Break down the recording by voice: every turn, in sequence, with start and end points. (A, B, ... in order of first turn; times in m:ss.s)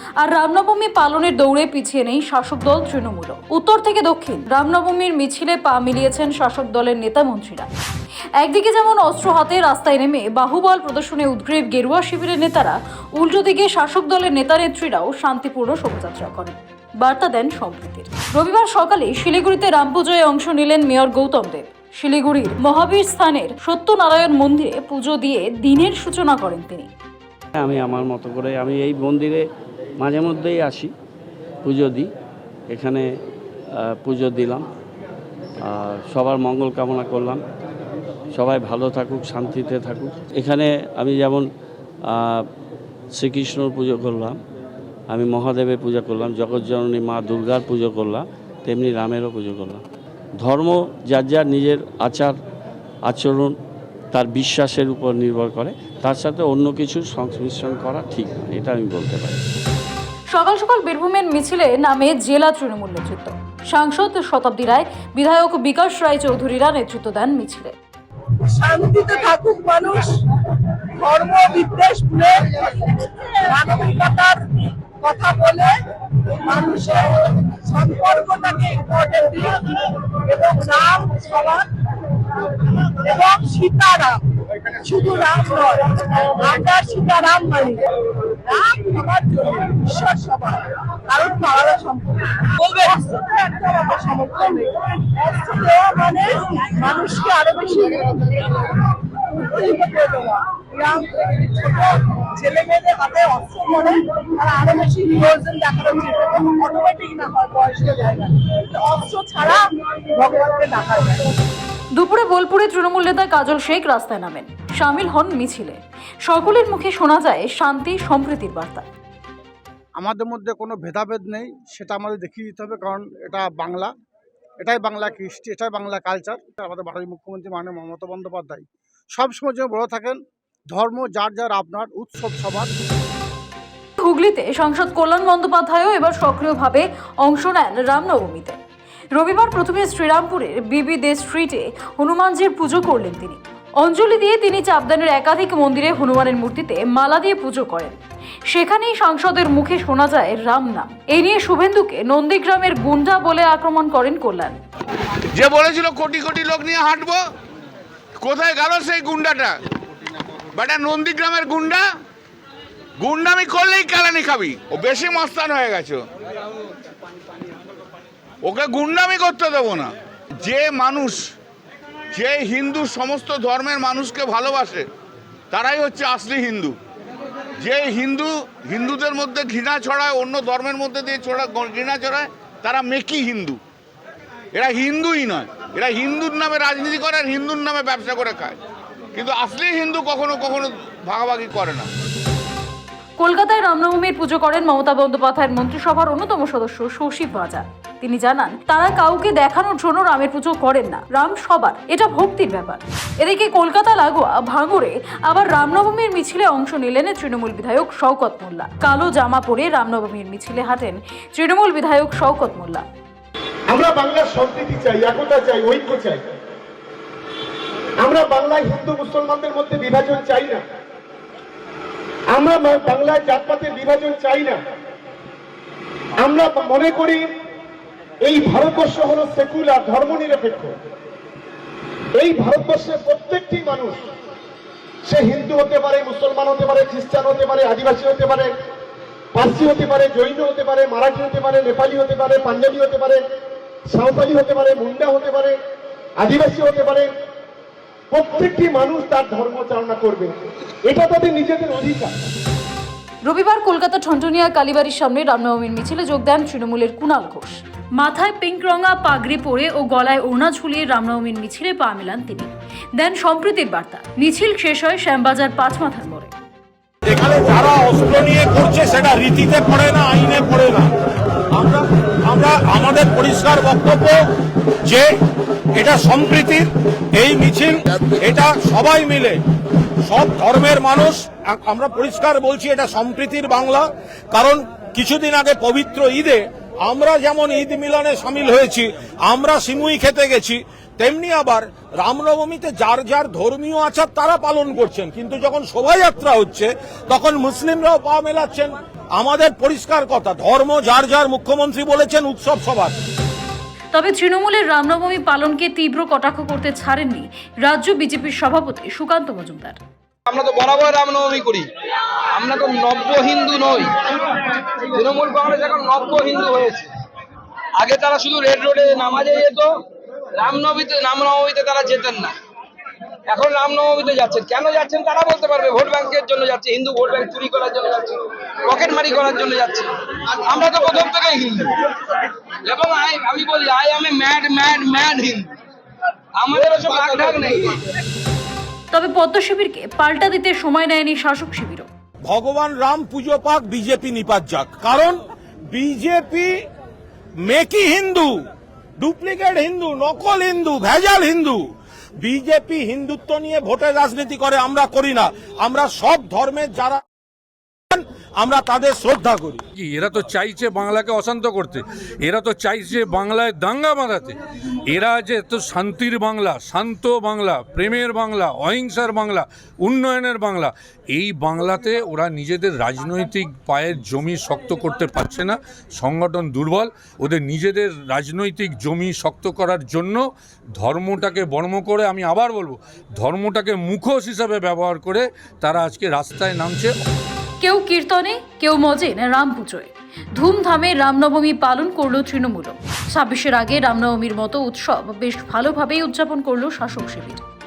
0:00.2-0:07.7 A
0:08.4-0:26.9 A
0:27.5-0:30.9 B
0:31.6-0:32.1 B
0:32.7-0:33.1 B
0:33.7-0:34.7 B
0:35.6-0:37.4 B
0:38.3-0:41.5 B
0:42.0-0:42.5 B
0:43.1-0:44.4 B
0:45.1-0:49.8 B
0:50.4-0:52.4 B
0:53.0-0:53.5 B
0:54.1-0:59.4 B
1:00.3-1:07.7 A
1:08.5-1:10.2 C
1:11.0-1:14.4 C
1:15.0-1:15.7 C
1:16.4-1:21.7 C
1:23.0-1:24.2 C
1:24.8-1:27.8 C
1:28.4-1:38.7 C
1:39.4-1:51.3 C
1:52.0-1:58.9 A
2:00.0-2:03.9 D
2:04.6-2:10.2 D
2:10.7-2:12.7 D
2:14.0-2:18.6 A
2:19.1-2:28.0 A
2:28.5-2:34.6 A
2:35.3-2:37.2 E
2:38.2-2:39.5 E
2:40.5-2:41.8 E
2:43.0-2:46.0 E
2:48.4-2:51.3 E
2:52.1-2:54.9 E
2:55.5-2:56.8 E
2:57.6-3:03.6 E
3:04.5-3:08.6 E
3:09.1-3:11.9 E
3:13.2-3:32.8 A
3:33.7-3:36.3 F
3:38.0-3:40.6 F
3:42.3-3:44.6 F
3:46.2-3:47.3 F
3:48.2-3:50.8 F
3:52.1-3:54.0 F
3:55.1-3:58.5 F
3:59.3-4:03.2 F
4:03.9-4:05.6 F
4:06.2-4:07.1 F
4:08.1-4:12.2 F
4:13.2-4:26.3 A
4:27.1-4:30.9 G
4:31.5-4:34.2 G
4:35.8-4:39.4 G
4:40.0-5:02.9 G
5:03.9-5:09.8 A
5:10.3-5:11.7 H
5:12.3-5:14.0 H
5:14.9-5:16.9 H
5:17.8-5:19.7 H
5:20.4-5:22.3 H
5:23.3-5:31.8 H
5:32.6-5:35.5 H
5:36.4-5:37.8 H
5:38.9-5:41.9 A
5:42.3-5:45.2 G
5:45.7-5:46.5 G
5:47.4-5:48.3 G
5:49.0-5:51.6 G
5:52.2-5:57.0 G
5:57.9-5:59.6 G
5:59.8-6:04.3 I
6:04.9-6:20.2 I
6:20.8-6:26.9 I
6:27.6-6:37.4 A